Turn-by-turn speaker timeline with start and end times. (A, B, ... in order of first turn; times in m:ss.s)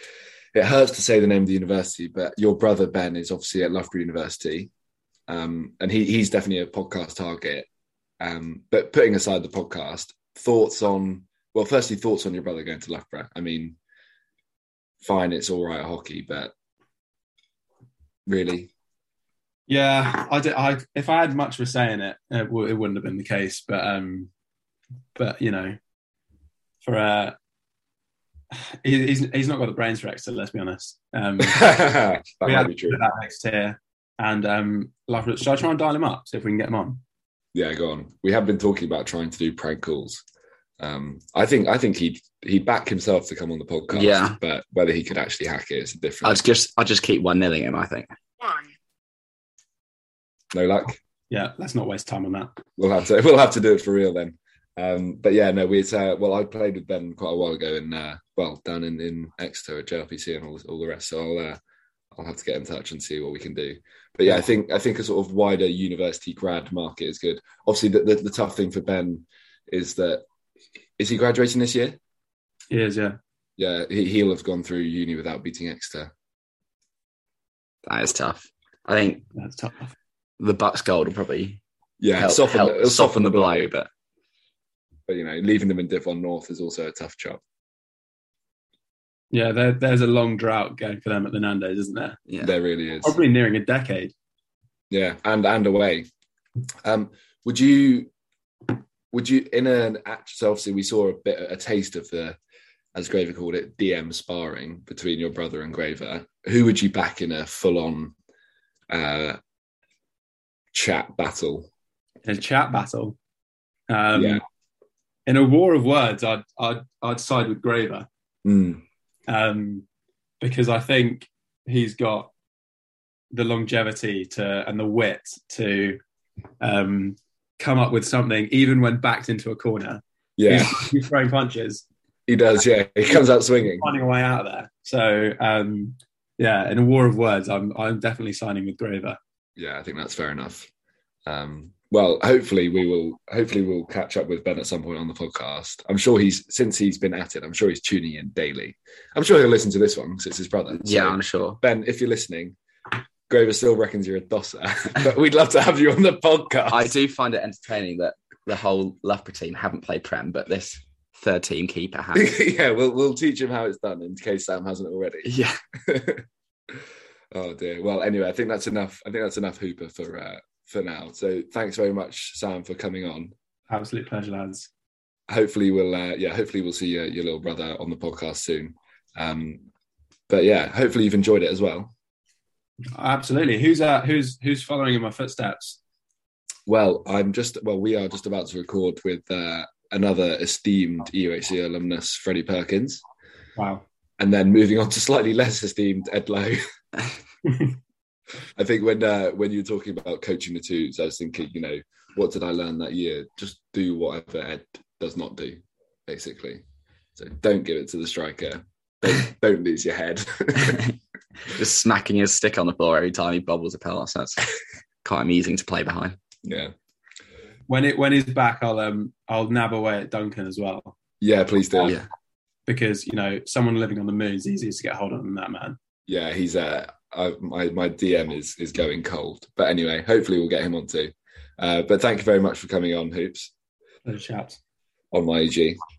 0:00.5-0:04.7 A
0:05.3-0:07.7 A
0:08.2-0:13.8 A
0:15.0-0:16.5 A
0:18.3-0:18.7 A
0:19.7-0:24.3 B
0:25.2-0:25.8 B
0:26.8-0:27.4 B
0:28.5-0:31.7 B
0:31.4-0:33.0 A
0:32.4-0:37.0 B
0:37.5-0:40.2 A
0:40.8-0:46.4 A
0:43.9-0:44.4 C
0:46.2-0:48.1 C
0:50.5-0:51.0 A
0:51.3-0:52.6 B
0:52.8-1:01.6 A
1:02.1-1:10.2 A
1:11.0-1:12.0 A
1:12.7-1:13.2 B
1:13.6-1:16.1 A
1:17.8-1:19.3 C
1:19.4-1:19.9 B
1:20.4-1:21.6 C
1:22.0-1:23.7 A
1:22.2-1:23.9 C
1:25.1-1:27.4 A
1:29.3-1:32.2 B
1:32.4-1:33.2 A
1:33.0-1:34.1 B
1:34.9-1:36.1 A
1:36.8-1:38.1 A
1:39.1-1:42.4 A
1:42.9-1:48.2 A
1:48.9-1:49.4 A
1:50.7-1:51.7 A
1:52.2-1:53.2 B
1:53.9-1:54.4 B
1:54.1-1:54.4 A
1:55.3-1:58.1 B
1:58.4-1:58.8 A
1:59.3-1:59.8 B
2:00.4-2:02.3 B
2:03.3-2:06.0 B
2:06.6-2:11.8 B
2:10.4-2:10.8 A
2:12.3-2:13.9 A
2:13.1-2:19.2 B
2:19.6-2:20.7 A
2:21.3-2:32.6 A
2:30.8-2:31.6 C
2:33.3-2:36.9 A
2:36.7-2:42.3 C
2:42.1-2:45.3 A
2:45.2-2:45.6 C
2:45.8-2:46.8 A
2:47.3-2:53.3 A
2:53.7-2:54.7 B
2:55.3-2:59.6 A
3:00.3-3:01.9 A
3:02.9-3:05.8 B
3:06.7-3:13.0 A
3:13.6-3:13.8 B
3:14.2-3:16.6 A
3:18.6-3:26.6 A
3:27.2-3:30.9 A
3:31.5-3:34.5 C
3:35.0-3:36.2 C
3:36.4-3:36.7 A
3:37.7-3:41.0 B
3:41.2-3:42.0 A
3:42.7-3:45.8 B
3:46.1-3:53.5 A
3:54.0-3:54.6 B
3:55.1-3:55.8 A